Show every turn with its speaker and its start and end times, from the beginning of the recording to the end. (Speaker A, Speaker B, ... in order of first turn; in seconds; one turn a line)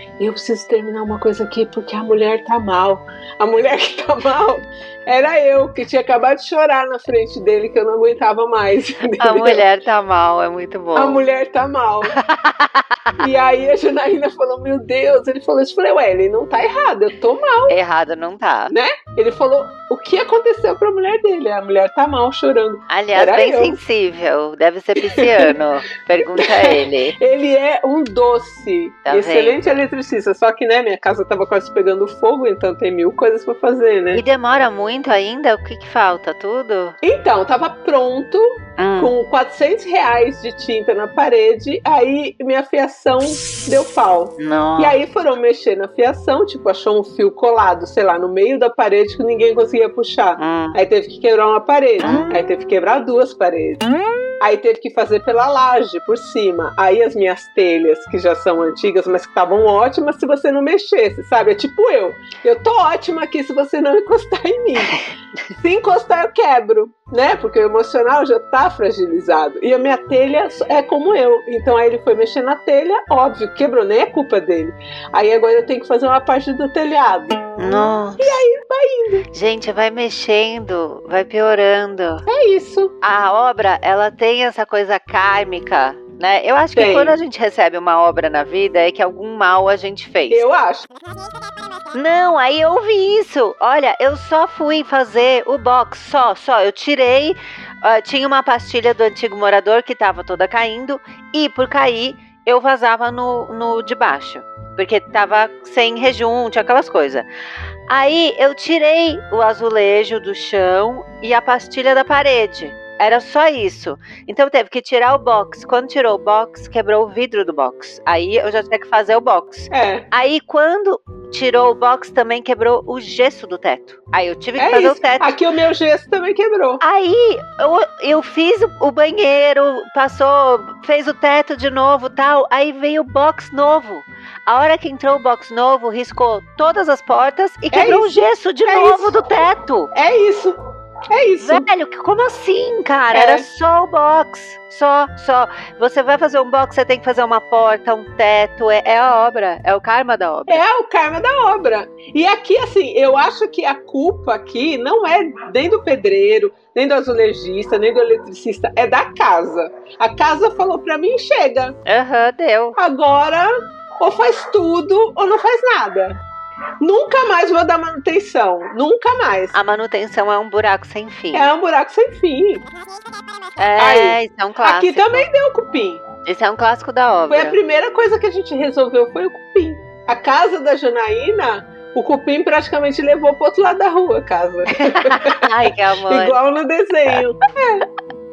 Speaker A: 0.2-9.6
Speaker B: 9.2-11.2
Speaker A: 10.9-12.2
Speaker B: 12.1-13.3
Speaker A: 13.2-17.8
Speaker B: 17.7-18.7
Speaker A: 18.7-23.8
Speaker B: 22.9-27.1
Speaker A: 25.1-25.5
Speaker A: 26.2-34.2
Speaker B: 29.1-29.6
Speaker B: 34.1-37.0
Speaker A: 37.0-53.9
Speaker B: 38.8-39.1
Speaker B: 44.4-45.0
Speaker B: 50.4-50.8
Speaker B: 52.0-52.4
Speaker A: 54.4-65.0
Speaker A: 65.6-79.3
Speaker B: 77.6-78.3
Speaker B: 79.3-82.2
Speaker A: 82.3-82.9
Speaker B: 83.0-90.4
Speaker A: 86.7-87.2
Speaker A: 90.3-90.9
Speaker B: 91.9-107.2
Speaker B: 107.9-125.3
Speaker A: 119.7-120.0
Speaker A: 124.6-126.8
Speaker B: 126.8-139.9
Speaker A: 137.7-139.2
Speaker A: 139.9-140.6
Speaker A: 141.1-141.7
Speaker B: 141.4-150.6
Speaker A: 143.1-143.4
Speaker A: 150.5-161.8
Speaker B: 161.8-162.8
Speaker A: 162.8-166.2
Speaker A: 166.8-169.5
Speaker B: 169.5-171.5
Speaker A: 171.3-172.6
Speaker B: 173.6-175.3
Speaker A: 173.8-176.0
Speaker B: 176.2-177.6
Speaker A: 177.3-187.8
Speaker B: 184.7-186.4